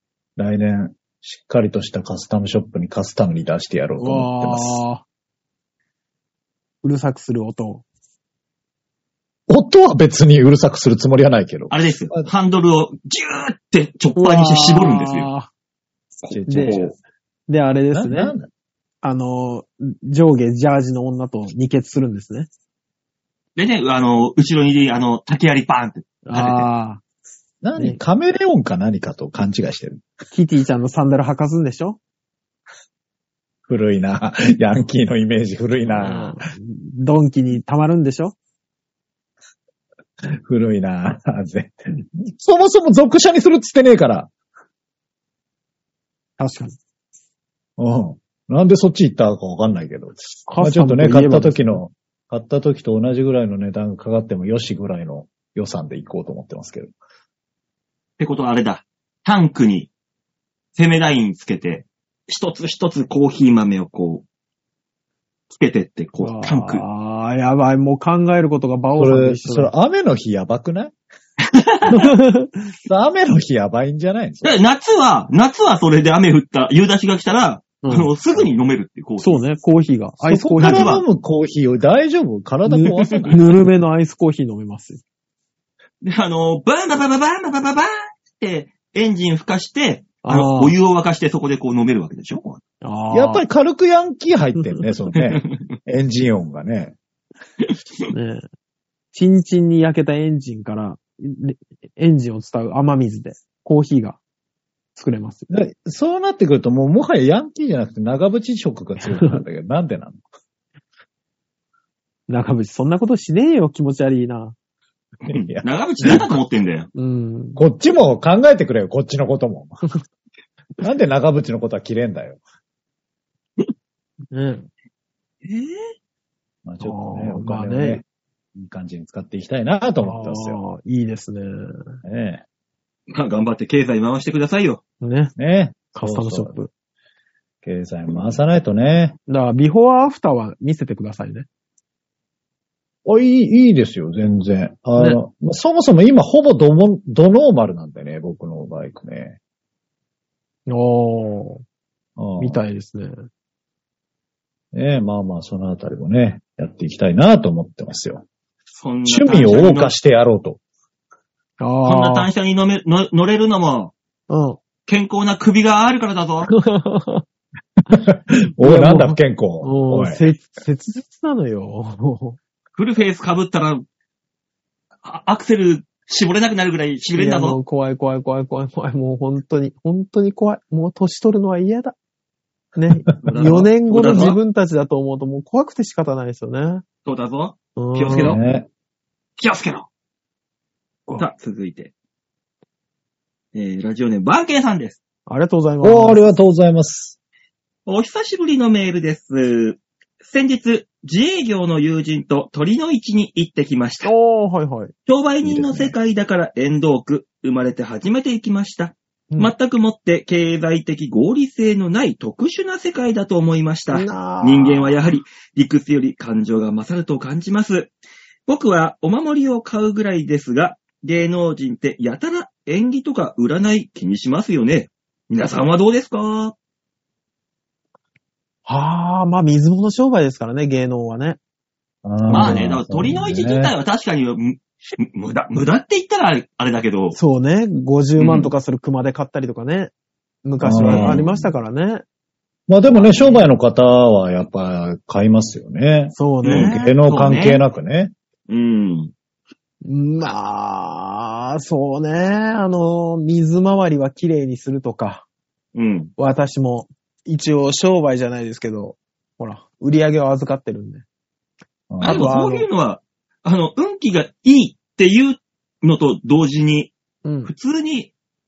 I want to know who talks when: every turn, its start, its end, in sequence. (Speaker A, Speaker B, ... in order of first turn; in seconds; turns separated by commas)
Speaker A: 0.4-4.8, Speaker B: 4.0-5.0, Speaker B: 6.8-7.8, Speaker A: 9.5-12.3, Speaker C: 11.7-15.3, Speaker B: 14.2-15.5, Speaker C: 16.2-16.9, Speaker A: 16.3-16.9, Speaker B: 16.5-16.8, Speaker B: 17.5-18.3, Speaker A: 17.9-18.5, Speaker B: 19.0-22.5, Speaker C: 23.6-26.7, Speaker B: 26.2-27.0, Speaker A: 27.6-30.0, Speaker B: 30.3-32.0, Speaker A: 33.7-36.4, Speaker B: 35.9-38.3, Speaker A: 40.2-44.3, Speaker B: 46.4-46.8, Speaker A: 47.8-56.9, Speaker B: 50.5-51.8, Speaker C: 58.2-59.9, Speaker C: 60.8-64.2, Speaker C: 65.5-66.8, Speaker B: 66.2-69.7, Speaker A: 69.0-70.9, Speaker C: 71.5-72.1, Speaker B: 71.9-72.7, Speaker A: 72.8-74.6, Speaker C: 74.4-79.4, Speaker B: 77.8-78.1, Speaker B: 79.2-80.9, Speaker A: 80.2-83.4, Speaker C: 80.6-81.0, Speaker B: 82.7-85.0, Speaker C: 83.0-83.3, Speaker C: 86.0-92.6, Speaker B: 90.2-90.8, Speaker B: 92.8-93.4, Speaker A: 93.1-97.0, Speaker C: 95.1-95.6, Speaker B: 98.1-98.4, Speaker B: 99.1-104.2, Speaker B: 105.0-105.5, Speaker A: 105.5-110.2, Speaker B: 109.0-109.4, Speaker B: 112.3-114.5, Speaker C: 115.2-116.9, Speaker A: 115.3-116.3, Speaker B: 116.9-117.6, Speaker A: 117.6-119.8, Speaker A: 120.8-122.4, Speaker B: 124.3-124.7, Speaker C: 125.4-125.8, Speaker A: 126.6-128.0, Speaker B: 126.8-128.0, Speaker A: 128.5-130.6, Speaker B: 130.0-131.8, Speaker A: 132.0-132.4, Speaker C: 133.1-134.8, Speaker B: 135.0-135.3, Speaker A: 135.4-136.6, Speaker B: 135.9-136.7, Speaker A: 137.6-139.2, Speaker B: 139.3-141.5, Speaker A: 143.0-149.4, Speaker B: 150.7-151.6, Speaker A: 152.2-152.6, Speaker B: 152.4-153.1, Speaker A: 154.7-158.2, Speaker C: 158.8-159.9, Speaker A: 159.1-160.6, Speaker B: 161.6-162.3, Speaker C: 161.8-163.9, Speaker B: 164.3-164.6, Speaker C: 164.8-166.5, Speaker B: 166.5-167.2, Speaker A: 167.9-170.3, Speaker B: 168.6-172.4, Speaker C: 172.8-173.8, Speaker C: 175.0-177.6, Speaker B: 177.1-181.9, Speaker B: 182.8-186.8, Speaker C: 183.2-184.4, Speaker C: 187.0-188.4, Speaker B: 187.8-188.4, Speaker A: 188.2-188.7, Speaker C: 189.4-189.9, Speaker C: 191.2-191.9, Speaker C: 193.5-195.0, Speaker B: 195.3-196.3, Speaker A: 195.8-197.2, Speaker C: 197.8-204.1, Speaker B: 204.0-204.9, Speaker C: 205.1-217.9, Speaker A: 205.4-205.9, Speaker B: 213.9-215.0, Speaker C: 218.5-226.5, Speaker B: 228.7-231.4, Speaker A: 232.0-233.7, Speaker B: 232.2-232.7, Speaker C: 232.3-237.2, Speaker B: 237.1-239.9, Speaker C: 238.2-238.5, Speaker B: 240.4-242.0, Speaker A: 240.6-241.5, Speaker C: 240.8-241.2, Speaker A: 242.7-248.1, Speaker B: 242.9-243.5, Speaker B: 246.1-247.0, Speaker C: 246.4-247.6, Speaker C: 248.5-249.1, Speaker B: 249.8-255.2, Speaker C: 255.7-256.1, Speaker B: 256.2-261.0, Speaker A: 261.9-262.3, Speaker B: 262.0-262.7, Speaker C: 262.0-266.9, Speaker B: 267.2-267.5, Speaker C: 267.4-268.1